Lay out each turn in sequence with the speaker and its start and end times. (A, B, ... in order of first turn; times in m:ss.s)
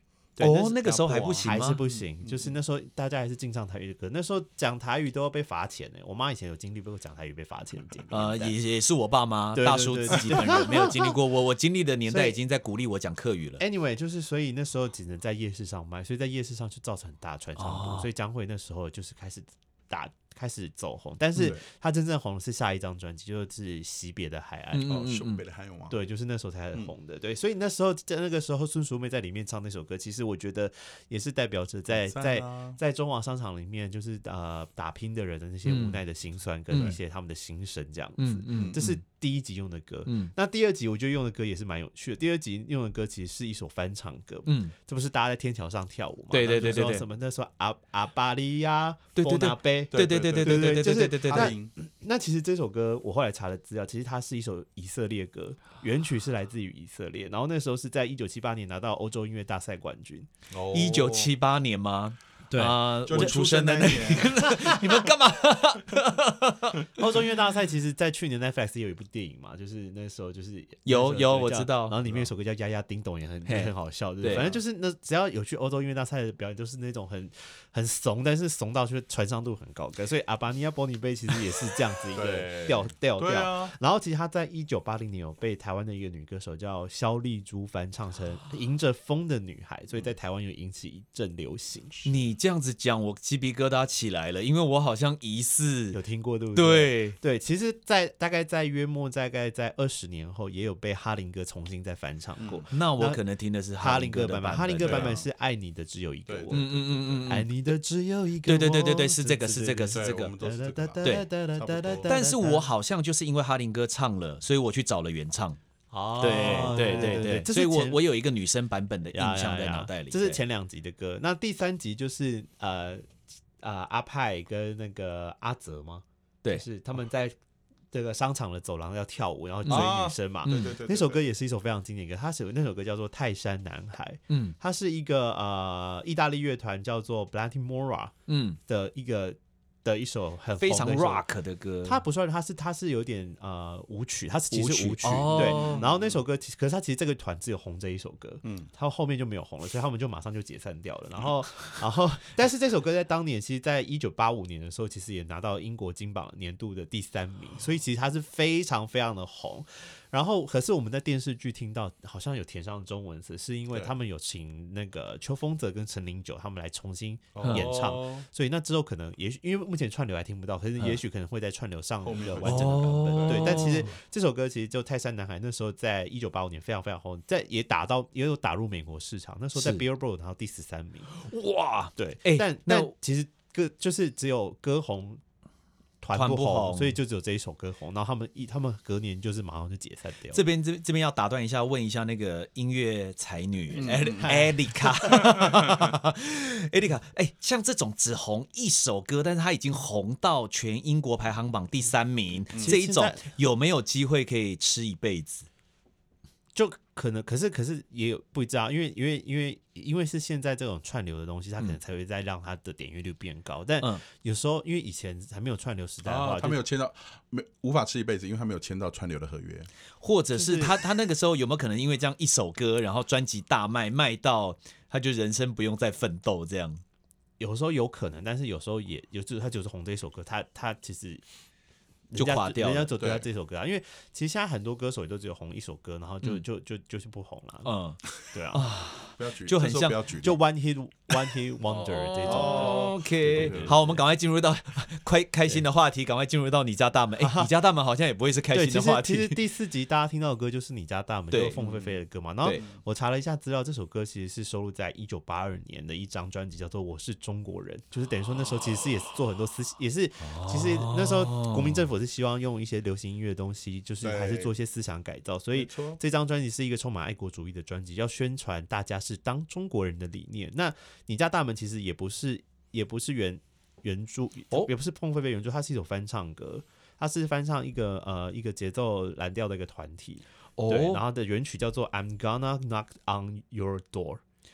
0:00.4-0:08.5 A
0:00.4-0:01.8 B
0:00.8-0:02.5 C
0:08.1-0:13.6 B
0:09.5-0:11.2 A
0:12.1-0:12.4 A
0:13.6-0:24.9 A
0:17.6-0:18.1 B
0:21.4-0:21.6 C
0:24.7-0:25.4 B
0:24.8-0:26.0 C
0:25.9-1:00.3 A
0:31.9-0:32.8 C
0:35.6-0:36.0 B
0:36.7-0:37.0 B
0:36.7-0:37.0 C
0:38.2-0:39.0 B
0:40.0-0:40.3 B
0:44.4-0:44.7 B
0:46.3-0:47.0 B
0:49.2-0:51.5 B
0:49.9-0:51.7 C
1:00.5-1:01.3 C
1:00.7-1:06.9 B
1:02.5-1:03.4 A
1:03.0-1:05.0 C
1:04.4-1:05.0 A
1:06.9-1:32.1 A
1:10.8-1:12.0 B
1:12.0-1:12.3 C
1:13.4-1:14.5 B
1:14.2-1:14.6 C
1:22.1-1:23.7 C
1:32.0-1:36.0 B
1:35.9-1:43.2 A
1:36.5-1:37.2 B
1:42.4-1:42.7 C
1:42.7-1:45.2 B
1:43.8-1:52.7 A
1:44.8-1:45.2 C
1:46.3-1:47.3 C
1:46.5-1:47.5 B
1:48.4-1:50.3 B
1:49.9-1:52.1 C
1:52.0-1:55.6 B
1:55.9-1:58.0 A
1:56.2-2:00.4 B
1:56.3-1:57.3 C
1:59.1-2:03.1 A
2:03.6-2:07.4 A
2:07.9-2:18.1 A
2:09.6-2:10.8 B
2:09.7-2:11.2 C
2:14.3-2:14.5 B
2:18.3-2:18.6 B
2:18.7-2:21.2 A
2:20.6-2:22.0 B
2:21.8-3:01.1 A
2:24.5-2:25.8 B
2:25.2-2:26.2 C
2:28.4-2:28.7 C
2:47.3-2:48.3 C
2:47.4-2:47.7 B
2:52.0-2:54.0 C
2:52.4-2:53.9 B
2:59.6-2:59.8 B
3:01.1-3:02.9 B
3:02.0-3:05.2 A
3:06.0-3:10.4 A
3:06.1-3:07.0 B
3:10.3-3:25.5 B
3:13.7-3:14.3 C
3:14.2-3:15.3 A
3:15.1-3:15.9 C
3:22.6-3:23.2 A
3:26.5-3:36.6 A
3:36.0-3:39.7 C
3:40.0-3:46.8 B
3:40.3-3:40.7 A
3:47.4-3:51.2 A
3:52.1-3:57.7 A
3:52.1-3:52.9 B
3:53.0-3:53.2 C
3:57.6-4:00.0 B
3:58.3-3:58.7 A
3:59.2-4:00.4 C
4:00.2-4:03.8 A
4:01.7-4:09.4 B
4:02.2-4:04.0 C
4:07.2-4:07.5 A
4:08.5-4:44.2 A
4:11.3-4:11.6 B
4:11.5-4:12.0 C
4:20.2-4:21.9 B
4:24.0-4:24.5 C
4:25.5-4:26.0 C
4:40.6-4:41.0 B